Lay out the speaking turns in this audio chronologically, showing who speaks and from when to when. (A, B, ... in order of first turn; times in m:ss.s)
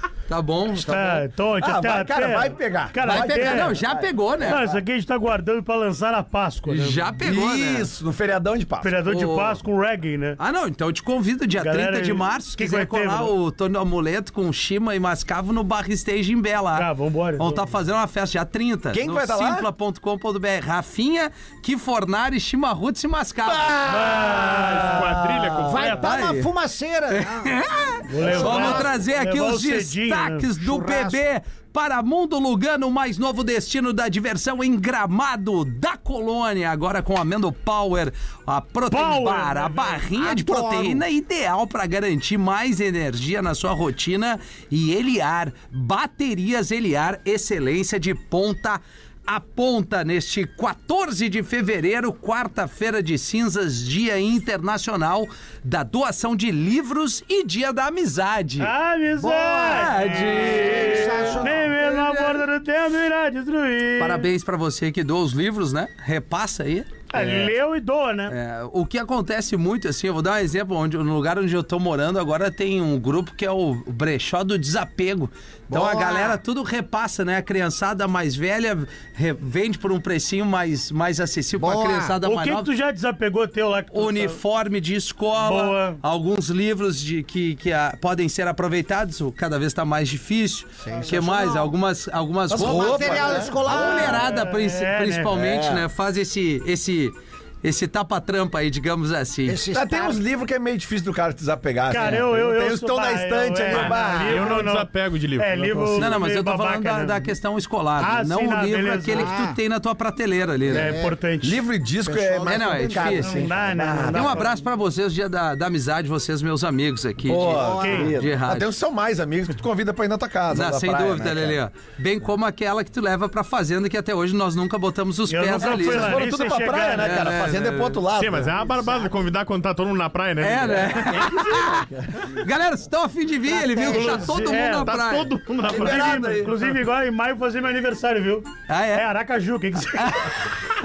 0:00.3-0:01.2 A
0:00.8-0:03.8 B
0:01.6-0:04.8 C
0:03.0-0:04.6 A
0:04.4-0:07.1 B
0:06.7-0:07.9 A
0:07.2-0:09.0 C
0:08.8-0:10.4 B
0:09.0-0:09.6 A
0:10.4-0:23.7 A
0:11.6-0:13.3 B
0:16.7-0:17.6 B
0:18.9-0:19.7 C
0:23.5-0:24.8 C
0:23.9-0:25.3 B
0:24.5-0:26.0 D
0:24.6-0:24.9 E
0:25.5-0:25.7 C
0:25.7-0:28.9 E
0:26.0-0:26.5 A
0:27.1-0:58.7 A
0:28.1-0:30.5 B
0:28.3-0:28.6 C
0:30.6-0:31.2 E
0:38.9-0:40.1 B
0:40.2-0:41.0 E
0:58.6-1:04.3 B
0:59.2-1:01.8 E
0:59.6-1:02.4 A
1:04.0-1:07.5 A
1:07.1-1:08.3 B
1:08.3-1:22.7 A
1:15.7-1:16.4 E
1:21.6-1:22.2 E
1:22.2-1:24.4 B
1:23.9-1:39.6 A
1:25.4-1:26.0 B
1:30.8-1:31.7 E
1:32.5-1:34.2 C
1:32.6-1:34.3 E
1:33.9-1:35.3 B
1:35.3-1:35.8 C
1:39.4-1:40.2 E
1:39.7-1:44.6 C
1:41.9-1:47.3 B
1:42.0-1:42.2 A
1:43.7-1:46.1 D
1:43.8-1:44.3 E
1:46.0-1:50.9 A
1:48.0-1:49.3 B
1:49.1-1:49.6 E
1:50.7-1:51.6 B
1:50.8-1:51.2 E
1:51.4-1:54.4 C
1:52.0-1:54.1 E
1:52.4-1:53.3 A
1:53.2-1:54.5 B
1:54.1-1:58.7 A
1:57.3-2:01.6 C
1:57.4-1:58.1 E
1:57.8-1:58.1 B
2:00.5-2:06.2 A
2:05.3-2:07.4 B
2:05.7-2:08.9 C
2:07.0-2:08.0 A
2:08.2-2:11.3 D
2:10.4-2:15.3 A
2:10.7-2:12.4 C
2:13.7-2:15.0 B
2:14.8-2:16.5 D
2:15.6-2:16.6 C
2:15.7-2:20.4 B
2:18.7-2:19.1 A
2:20.0-2:20.3 A